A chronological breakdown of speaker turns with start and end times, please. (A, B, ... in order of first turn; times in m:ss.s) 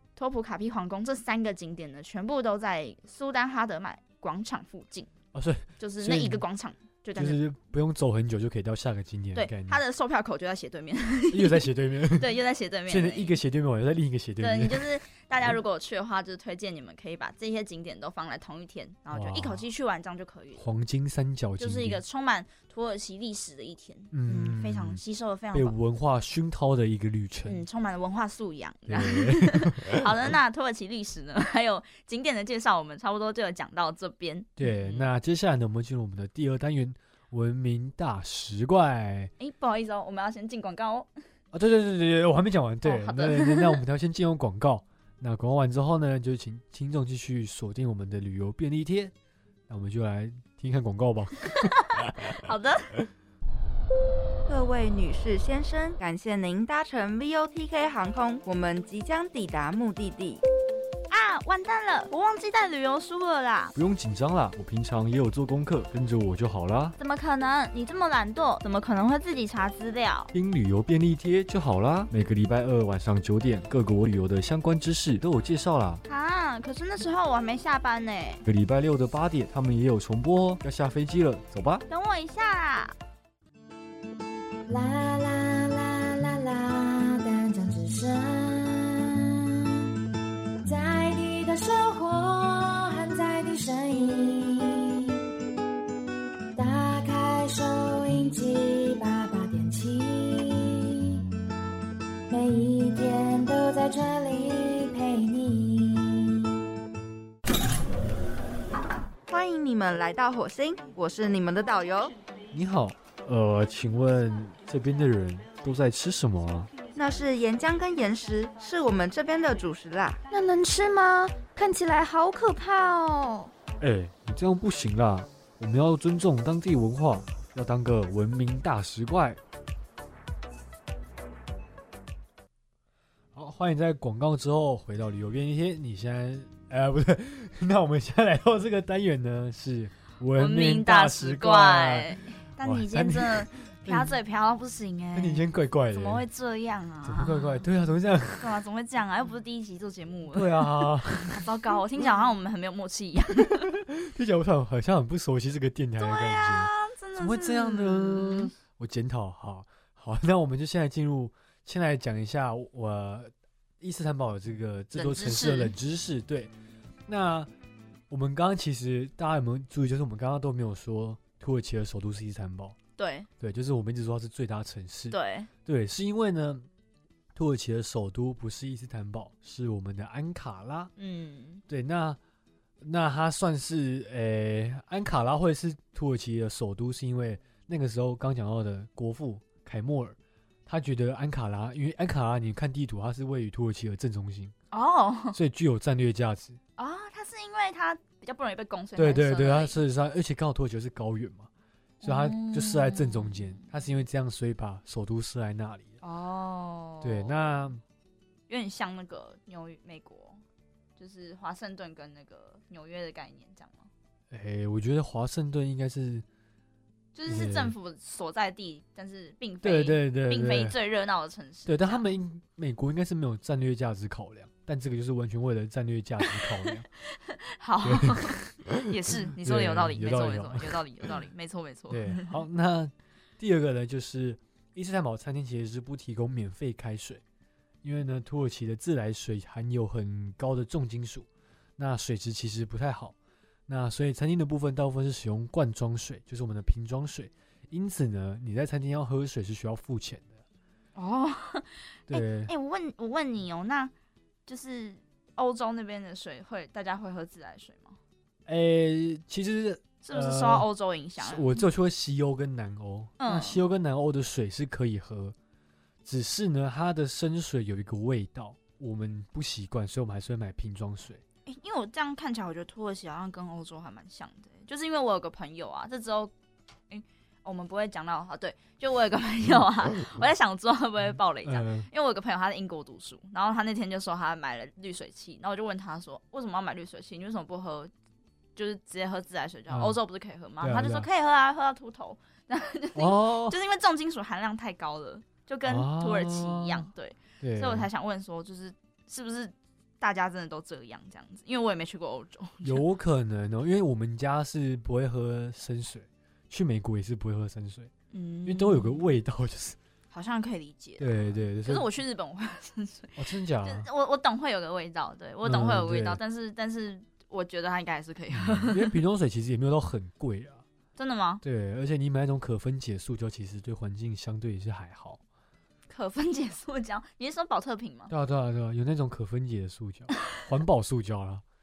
0:00.2-0:05.1 A
0:05.3-0:06.4 B
0:05.8-0:07.4 A
0:07.2-0:09.8 B
0:09.4-0:13.4 A
0:11.3-0:12.3 B
0:12.9-0:14.9 B
0:14.4-0:20.7 A
0:19.1-0:19.6 B
0:20.6-0:22.0 B
0:21.6-0:25.7 A
0:24.1-0:25.0 B
0:25.5-0:27.6 B
0:27.5-0:35.1 A
0:28.9-0:30.1 B
0:34.6-0:39.3 B
0:39.4-0:41.1 A
0:41.5-0:49.1 B
0:42.8-0:43.8 A
0:49.7-0:51.5 B
0:51.6-0:52.9 A
0:54.5-1:00.4 C
1:01.1-1:03.7 A
1:03.7-1:07.0 B
1:07.0-1:10.3 A
1:10.3-1:16.0 B
1:16.1-1:18.4 A
1:18.4-1:21.8 B
1:21.9-1:23.0 A
1:24.7-1:29.3 D
1:30.6-1:35.1 D
1:36.6-1:41.2 D
1:42.3-1:46.5 D
1:49.3-1:52.1 C
1:52.5-1:56.7 B
1:56.9-2:00.2 C
2:00.3-2:03.5 E
2:03.8-2:09.4 B
2:13.3-2:24.2 B
2:20.4-2:27.6 A
2:25.1-2:26.2 B
2:27.0-2:28.5 B
2:28.4-2:33.7 A
2:30.3-2:31.4 B
2:33.9-2:46.5 B
2:36.0-2:38.5 A
2:45.0-2:45.7 A
2:47.1-2:47.5 B
2:48.1-2:52.8 B
2:53.0-2:53.3 A
2:53.4-2:56.6 B
2:55.1-2:55.5 A
2:57.3-3:00.9 B
3:01.0-3:01.6 A
3:01.7-3:02.2 B
3:02.8-3:14.5 B
3:14.7-3:15.4 A
3:15.3-3:16.6 B
3:16.8-3:19.8 A
3:19.0-3:21.5 B
3:22.0-3:23.6 A
3:22.0-3:26.0 B
3:26.0-3:27.6 A
3:27.0-3:27.8 B
3:28.5-3:30.4 A
3:31.0-3:33.9 A
3:34.3-3:36.2 B
3:37.2-3:42.0 A
3:37.3-3:37.7 B
3:39.6-3:40.8 B
3:41.7-3:46.9 B
3:47.3-3:52.4 A
3:47.8-3:48.4 B
3:49.3-3:50.8 B
3:51.9-3:57.2 B
3:57.8-4:01.3 B
4:01.8-4:03.2 B
4:03.7-4:10.4 B
4:11.0-4:13.9 A
4:12.1-4:12.5 B
4:14.5-4:18.0 A
4:18.5-4:25.4 B
4:20.0-4:21.6 A
4:23.2-4:23.6 A
4:26.0-4:31.2 B
4:31.5-4:36.3 A
4:36.9-4:47.9 A
4:41.4-4:41.9 B
4:48.6-5:02.8 A
4:49.7-4:50.0 B
4:50.6-4:51.1 B
4:53.0-4:53.6 B
4:55.6-4:56.9 B
4:57.4-4:57.9 B
5:02.6-5:07.9 B
5:08.1-5:09.0 A
5:08.5-5:09.8 B
5:10.1-5:19.0 A
5:11.0-5:11.9 B
5:13.2-5:13.9 B
5:15.4-5:16.2 B
5:18.4-5:20.6 B
5:21.0-5:21.4 A
5:21.4-5:25.2 B
5:25.9-5:28.1 A
5:28.1-5:31.4 B